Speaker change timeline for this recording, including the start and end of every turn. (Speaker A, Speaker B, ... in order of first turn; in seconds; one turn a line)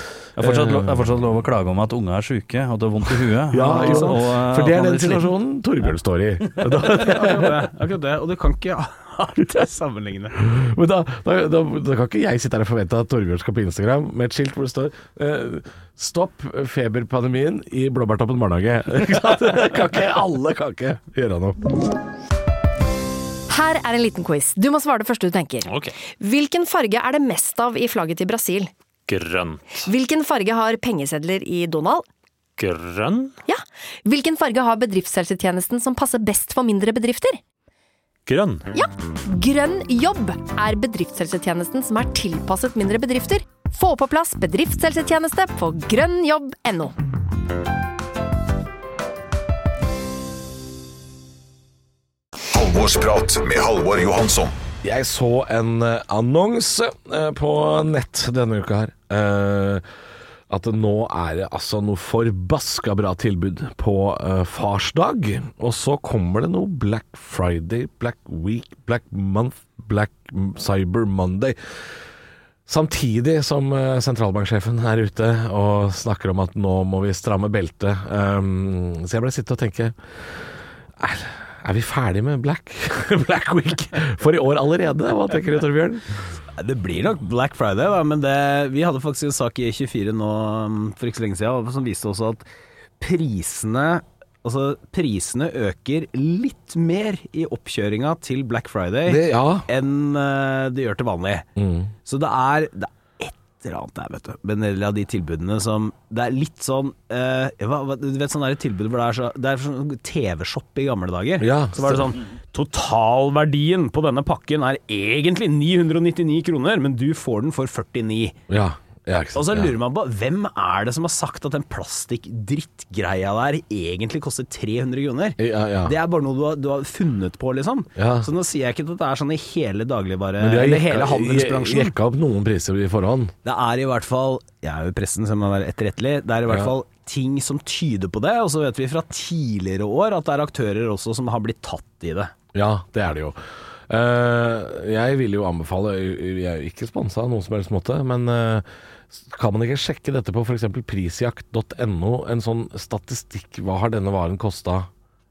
Speaker A: 0.4-1.1
Speaker B: 0.4-5.3
Speaker A: 3.5-7.5
Speaker C: 3.6-4.2
Speaker C: 6.7-10.4
Speaker A: 10.4-21.7
Speaker D: 23.5-28.7
Speaker E: 25.6-25.9
Speaker E: 29.1-29.6
Speaker D: 29.8-32.0
Speaker E: 32.6-33.3
Speaker D: 33.5-37.4
Speaker E: 38.3-38.7
Speaker D: 38.7-46.9
Speaker F: 52.5-54.6
Speaker A: 54.8-59.8
Speaker A: 60.5-71.6
Speaker A: 72.7-80.0
Speaker A: 81.0-86.1
Speaker C: 86.5-92.5
Speaker C: 93.0-101.5
Speaker A: 99.0-99.7
Speaker A: 101.5-101.9
Speaker C: 102.0-118.4
Speaker A: 111.4-112.1
Speaker A: 118.5-119.7
Speaker C: 119.3-131.9
Speaker A: 125.4-126.0
Speaker A: 128.0-128.3
Speaker A: 130.4-133.3
Speaker C: 133.4-142.3
Speaker A: 142.5-143.4
Speaker A: 143.9-154.9